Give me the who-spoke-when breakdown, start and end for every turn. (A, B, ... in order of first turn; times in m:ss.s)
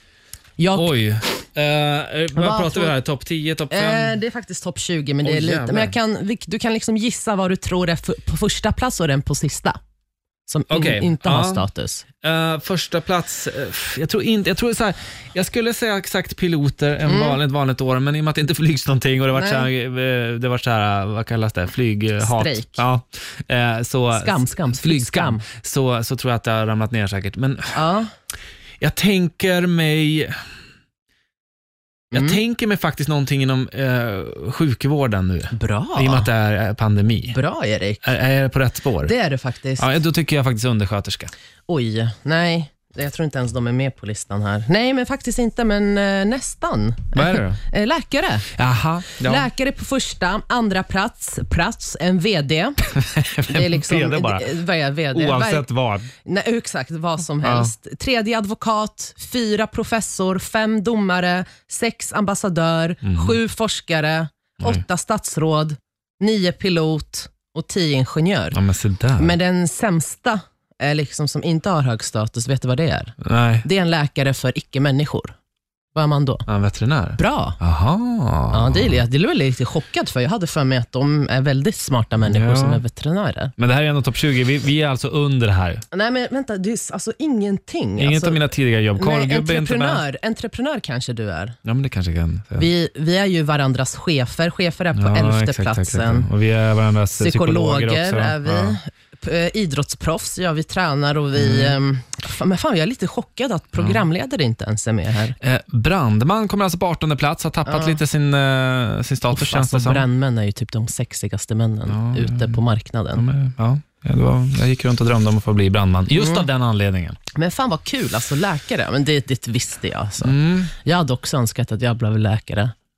0:00.6-0:00.9 A
0:00.7-0:04.2 B
0:02.4-0:03.0 A
0:03.7-0:09.8 A
0:05.2-0:05.9 B
0:10.5-0:12.0 A
0:10.7-0:11.6 B
0:12.2-0:27.8 B
0:17.1-0:17.4 A
0:19.3-0:19.7 A
0:22.2-0:22.8 A
0:24.1-0:25.5 A
0:27.7-0:28.1 A
0:28.8-0:30.4 B
0:32.1-0:32.4 A
0:32.1-0:37.4 B
0:35.5-0:36.3 A
0:37.3-0:38.1 A
0:38.0-0:39.1 B
0:39.0-0:39.9 A
0:39.8-0:41.3 B
0:41.7-0:48.5 A
0:47.2-0:47.6 B
0:48.6-0:49.5 B
0:49.2-0:52.8 A
0:52.9-0:54.6 B
0:53.5-0:55.7 A
0:55.1-0:56.1 B
0:56.2-1:08.6 A
0:57.4-0:57.7 B
1:03.0-1:03.4 B
1:08.5-1:09.4 B
1:09.2-1:15.3 A
1:13.2-1:13.6 B
1:16.0-1:16.4 A
1:16.5-1:19.0 B
1:17.2-1:17.6 A
1:18.5-1:23.5 A
1:22.2-1:22.8 B
1:23.6-1:25.8 B
1:25.9-1:31.6 A
1:28.0-1:30.0 B
1:31.6-1:32.7 B
1:32.6-1:36.3 A
1:35.0-1:38.8 B
1:37.2-1:45.4 A
1:41.4-1:41.8 B
1:43.8-1:44.0 B
1:45.4-1:50.1 B
1:47.7-1:48.0 A
1:49.3-1:53.2 A
1:51.9-1:52.6 B
1:53.2-1:57.2 B
1:56.1-1:56.5 A
1:57.4-2:02.7 A
2:00.2-2:00.7 B